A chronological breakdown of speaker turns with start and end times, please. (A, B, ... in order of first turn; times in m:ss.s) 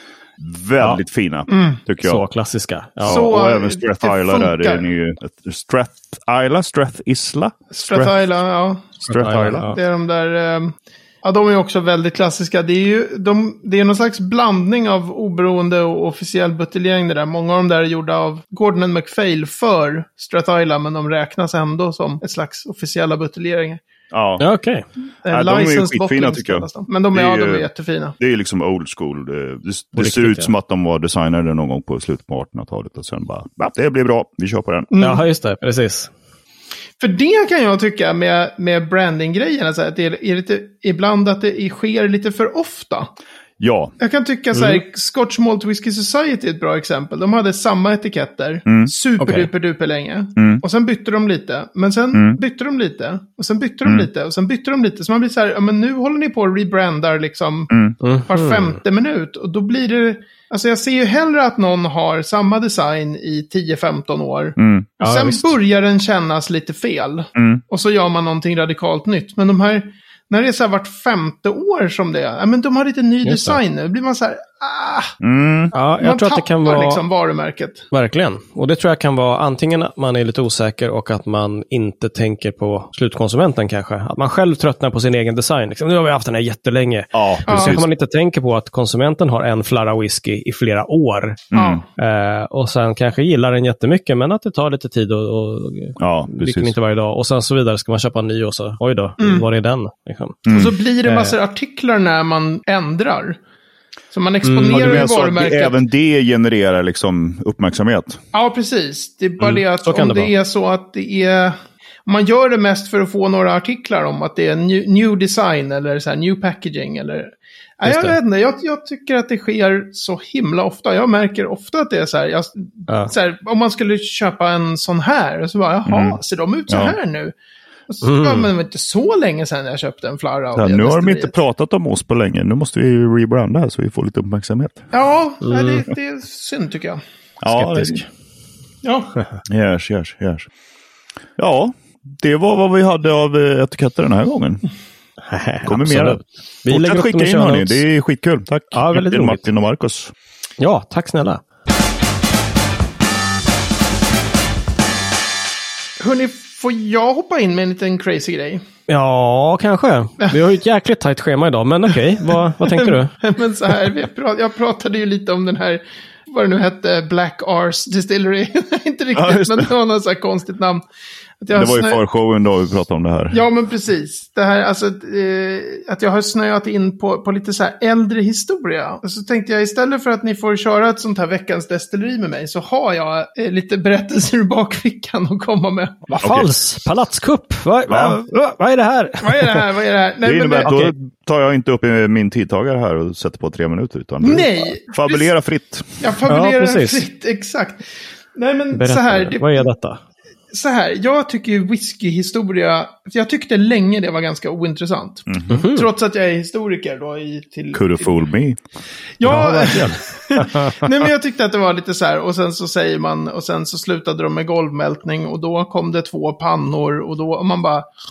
0:00.4-0:02.2 A
0:01.5-0:01.8 B
0:02.0-0:03.2 C
0:03.0-0:08.2 A
0:03.1-0:04.8 B
0:07.7-0:23.8 B
0:09.0-0:09.8 C
0:09.1-0:09.7 A
0:24.1-0:24.4 A
0:24.4-0:24.8 C
0:25.2-0:28.2 B
0:25.3-0:27.7 A
0:28.2-0:34.9 A
0:30.0-0:30.5 C
0:34.9-0:35.2 B
0:35.0-0:36.1 C
0:37.0-0:43.1 B
0:43.6-0:43.9 A
0:44.0-0:57.7 B
0:44.5-0:44.8 C
0:49.2-0:49.5 C
0:50.4-0:50.6 A
0:52.1-0:52.4 A
0:58.0-0:58.8 C
0:58.3-1:15.1 B
1:04.6-1:04.9 A
1:05.0-1:05.5 C
1:07.4-1:07.6 A
1:13.2-1:13.6 C
1:15.2-1:15.7 A
1:15.7-1:17.0 C
1:16.0-1:17.8 B
1:17.9-1:40.4 C
1:27.1-1:27.8 A
1:27.5-1:27.8 B
1:31.5-1:31.8 A
1:31.5-1:31.8 B
1:36.0-1:36.7 A
1:39.2-1:39.4 B
1:40.4-1:40.7 A
1:40.5-1:43.4 B
1:41.0-1:41.3 C
1:44.1-1:45.8 B
1:44.4-1:45.0 C
1:44.7-1:48.2 A
1:48.3-2:07.3 B
1:49.4-1:50.3 C
1:57.8-1:58.2 C
2:05.8-2:07.0 A
2:07.9-2:11.4 B
2:08.0-2:08.5 C
2:10.6-2:14.8 A
2:14.9-2:17.0 B
2:15.4-2:15.8 C
2:17.4-2:18.0 A
2:17.5-2:18.1 C
2:18.8-2:19.1 B
2:19.4-2:20.5 A
2:21.4-2:24.6 A
2:25.3-2:27.8 C
2:25.6-2:30.1 A
2:28.7-2:29.4 C
2:30.6-2:31.4 C
2:36.0-2:38.6 B
2:38.9-2:43.1 C
2:42.6-2:50.8 B
2:49.1-2:49.7 A
2:51.4-2:52.0 B
2:51.5-2:53.4 A
2:53.3-3:06.1 B
3:06.1-3:09.6 C
3:06.2-3:06.5 A
3:07.9-3:08.2 A
3:09.2-3:10.7 B
3:10.2-3:15.9 A
3:10.6-3:10.9 C
3:14.2-3:15.3 B
3:16.0-3:17.8 B
3:16.3-3:17.0 C
3:18.3-3:19.7 B
3:18.7-3:20.0 C
3:20.5-3:28.1 B
3:25.3-3:25.6 A
3:25.5-3:25.9 C
3:27.7-3:28.6 A
3:29.2-3:37.9 B
3:29.2-3:30.9 C